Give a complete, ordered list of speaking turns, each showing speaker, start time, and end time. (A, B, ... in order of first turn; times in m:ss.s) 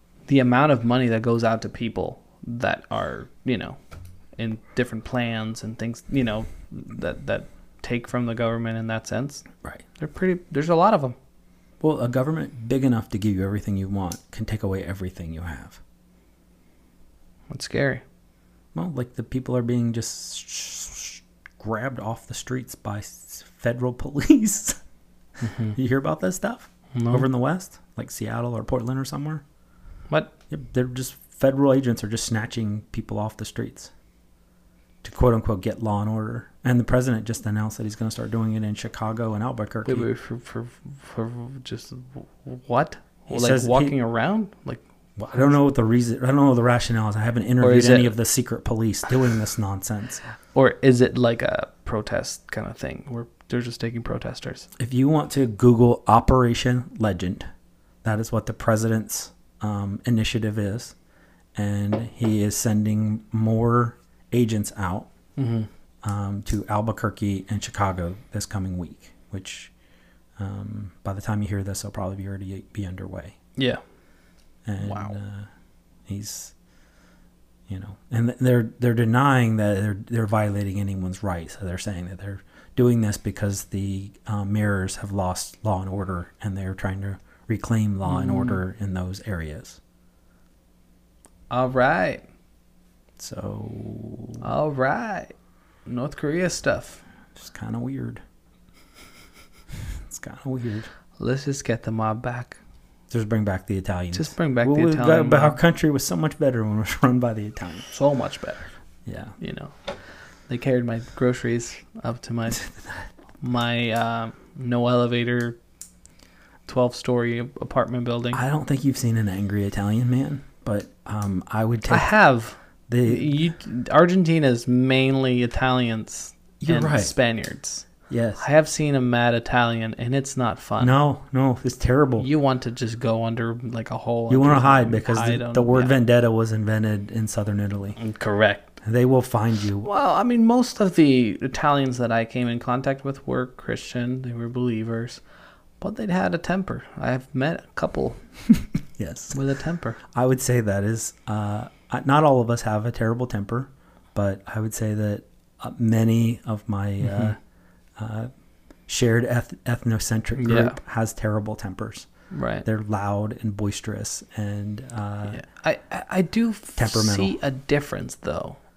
0:00.3-0:03.8 A
0:04.4-0:09.4 A
0:10.0-0:11.2 A
0:11.8-0:15.8 B
0:17.5-0:18.0 A
0:18.7-0:24.8 B
0:25.4-0:25.7 A
0:25.7-0:29.4 B
0:27.0-0:27.3 A
0:30.5-0:33.9 B
0:35.0-0:40.1 B
0:39.8-0:44.8 A
0:43.3-0:44.0 B
0:45.2-0:50.2 B
0:47.6-0:48.1 A
0:50.5-0:54.7 A
0:54.8-0:57.5 B
0:58.0-1:01.0 B
1:01.6-1:05.1 B
1:05.4-1:05.7 A
1:06.0-1:09.7 B
1:10.4-1:13.4 B
1:14.7-1:15.5 B
1:14.8-1:15.2 A
1:16.1-1:16.5 B
1:17.7-1:29.8 B
1:28.1-1:28.6 A
1:31.5-1:32.2 A
1:33.2-1:34.4 B
1:34.4-1:35.3 A
1:35.9-1:37.0 A
1:37.4-1:38.2 B
1:39.9-1:40.9 B
1:41.2-1:42.6 A
1:43.1-1:47.9 B
1:44.1-1:45.6 A
1:47.9-1:48.7 A
1:49.1-1:49.4 B
1:49.4-1:49.8 A
1:50.5-1:52.7 A
1:52.6-1:53.0 B
1:53.4-1:55.6 A
1:56.7-1:58.4 A
1:58.3-2:02.1 B
2:01.9-2:07.9 A
2:02.9-2:03.4 B
2:06.6-2:07.1 B
2:08.1-2:08.4 B
2:08.4-2:11.0 A
2:10.8-2:12.3 B
2:12.2-2:15.9 A
2:14.3-2:18.0 B
2:18.0-2:18.8 A
2:18.8-2:19.9 B
2:19.8-2:25.2 A
2:25.8-2:28.2 A
2:29.0-2:29.4 B
2:29.3-2:30.0 A
2:30.1-2:37.4 B
2:37.0-2:37.4 A
2:38.0-2:38.3 B
2:38.9-2:42.1 B
2:40.4-2:40.8 A
2:42.3-2:42.6 A
2:42.6-2:45.4 B
2:45.3-2:48.6 A
2:46.8-2:47.4 B